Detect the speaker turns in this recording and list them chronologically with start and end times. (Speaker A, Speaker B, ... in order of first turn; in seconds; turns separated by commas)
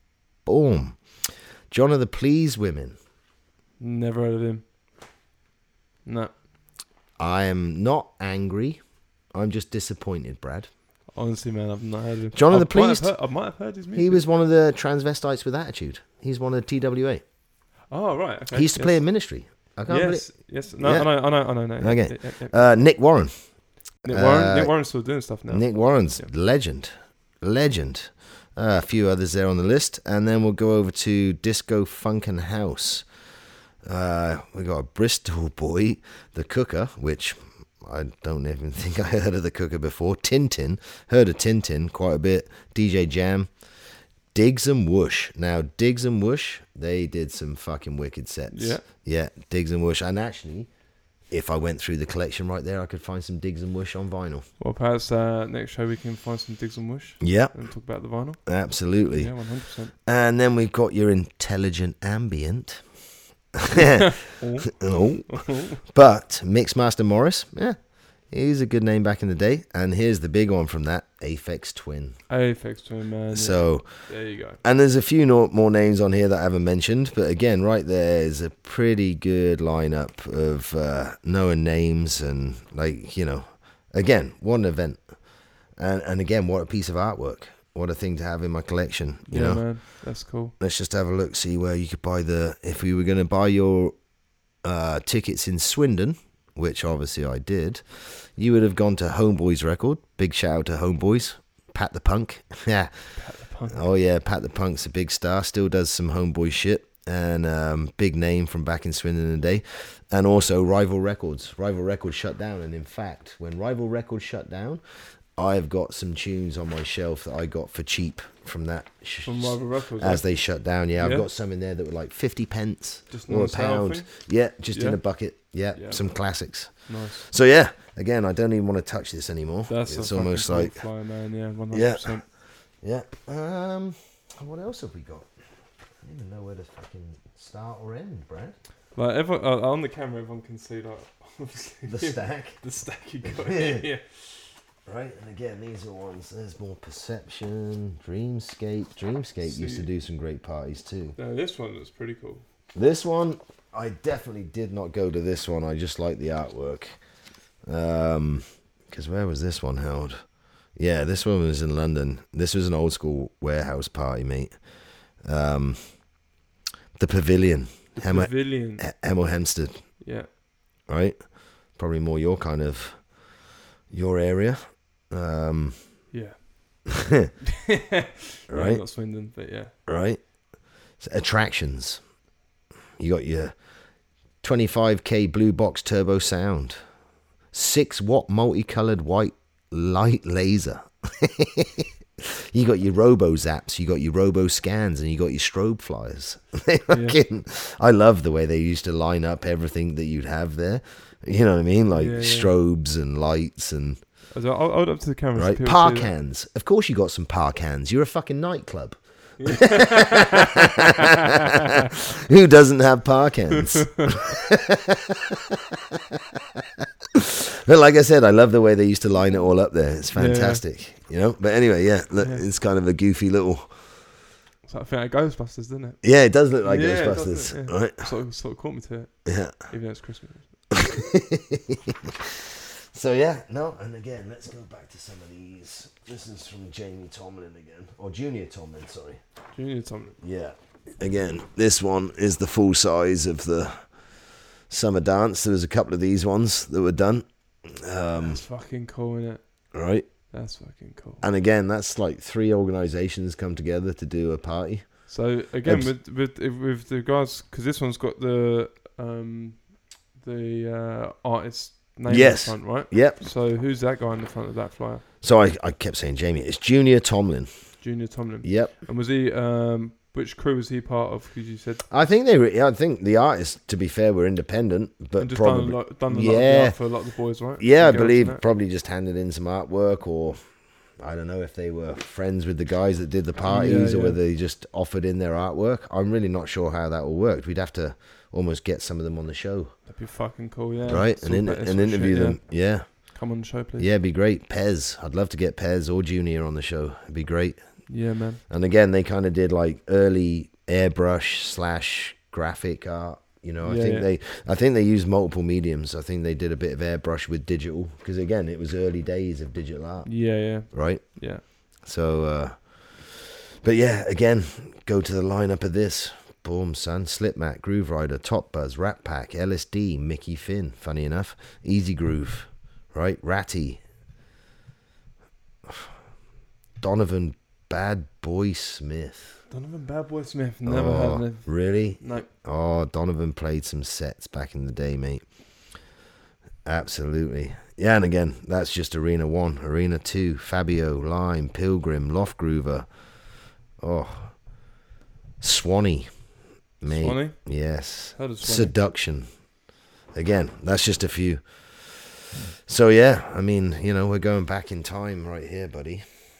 Speaker A: 0.4-1.0, Speaker A: 1.7-3.0, Speaker B: 3.8-4.6, Speaker B: 6.0-6.3, Speaker A: 7.2-8.8, Speaker A: 9.3-10.7, Speaker B: 11.1-14.2, Speaker A: 12.3-13.1, Speaker A: 13.9-17.2, Speaker B: 17.9-19.0, Speaker A: 18.5-23.3, Speaker B: 19.9-22.8, Speaker B: 24.0-25.6, Speaker A: 24.1-24.8, Speaker A: 25.5-33.0, Speaker A: 33.8-43.5, Speaker A: 44.3-50.7, Speaker B: 48.5-48.8, Speaker A: 51.3-54.5, Speaker B: 54.6-58.4, Speaker A: 57.2-57.5, Speaker A: 58.5-59.3, Speaker B: 59.1-59.9, Speaker A: 60.0-62.8, Speaker A: 63.5-67.8, Speaker B: 64.0-64.7, Speaker B: 65.3-65.8, Speaker A: 68.3-72.2, Speaker B: 72.3-74.6, Speaker A: 73.3-74.1, Speaker A: 74.6-85.2, Speaker A: 85.7-89.8, Speaker B: 89.3-90.5, Speaker A: 90.6-93.9, Speaker A: 94.6-103.1, Speaker B: 103.2-103.8, Speaker A: 103.7-114.8, Speaker A: 115.3-130.7, Speaker B: 119.2-120.2, Speaker B: 121.0-121.3, Speaker B: 123.1-124.1, Speaker B: 124.7-125.0, Speaker B: 125.7-126.0, Speaker B: 126.8-127.3, Speaker B: 129.7-132.2, Speaker A: 131.7-132.2, Speaker A: 132.8-135.3, Speaker A: 136.0-138.6, Speaker B: 138.9-144.2, Speaker A: 141.9-142.6, Speaker A: 143.2-143.8, Speaker A: 144.8-151.2, Speaker B: 149.4-149.9, Speaker B: 151.2-152.4, Speaker A: 152.8-156.9, Speaker A: 157.7-164.6, Speaker A: 165.2-165.8, Speaker A: 166.9-169.8, Speaker B: 167.9-168.8, Speaker B: 170.0-170.3, Speaker A: 170.9-173.1, Speaker A: 173.9-174.6, Speaker A: 175.1-175.8, Speaker B: 176.1-176.8, Speaker A: 176.9-177.3, Speaker B: 177.5-179.7, Speaker A: 178.5-178.8, Speaker A: 179.9-180.2, Speaker A: 181.0-182.0, Speaker A: 183.0-183.5, Speaker A: 184.4-186.8, Speaker A: 187.5-204.0, Speaker B: 196.9-197.2, Speaker B: 201.9-202.5, Speaker B: 204.3-206.1, Speaker A: 205.3-223.8, Speaker B: 209.4-211.7, Speaker B: 213.5-214.3, Speaker B: 220.1-220.6, Speaker B: 222.2-222.4, Speaker B: 224.7-226.0, Speaker A: 226.0-228.1, Speaker B: 226.6-230.5, Speaker A: 229.2-229.5, Speaker A: 230.7-239.2, Speaker B: 239.5-240.2, Speaker A: 240.2-243.9, Speaker A: 244.7-248.4, Speaker B: 248.2-249.4, Speaker A: 249.7-250.1, Speaker B: 250.3-251.2, Speaker A: 251.2-255.1, Speaker B: 255.1-265.0, Speaker A: 255.6-255.9, Speaker A: 262.1-263.2, Speaker A: 265.2-267.5, Speaker B: 267.8-271.9, Speaker A: 268.4-268.7, Speaker A: 271.9-276.8, Speaker B: 275.2-278.4, Speaker A: 277.6-280.4, Speaker A: 281.0-289.7, Speaker B: 283.4-284.2, Speaker B: 289.9-293.9, Speaker A: 290.9-293.1, Speaker A: 293.8-297.6, Speaker B: 297.9-298.4, Speaker A: 298.5-310.1, Speaker B: 303.6-304.1, Speaker B: 310.0-311.4, Speaker A: 310.6-311.0, Speaker A: 311.6-323.8, Speaker A: 326.8-329.4, Speaker B: 329.5-331.5, Speaker A: 330.6-335.2, Speaker B: 332.0-332.3, Speaker A: 336.6-342.9, Speaker A: 343.8-344.3, Speaker A: 345.4-346.1, Speaker A: 346.8-349.2, Speaker B: 346.9-347.4, Speaker B: 348.1-348.7, Speaker A: 350.1-356.1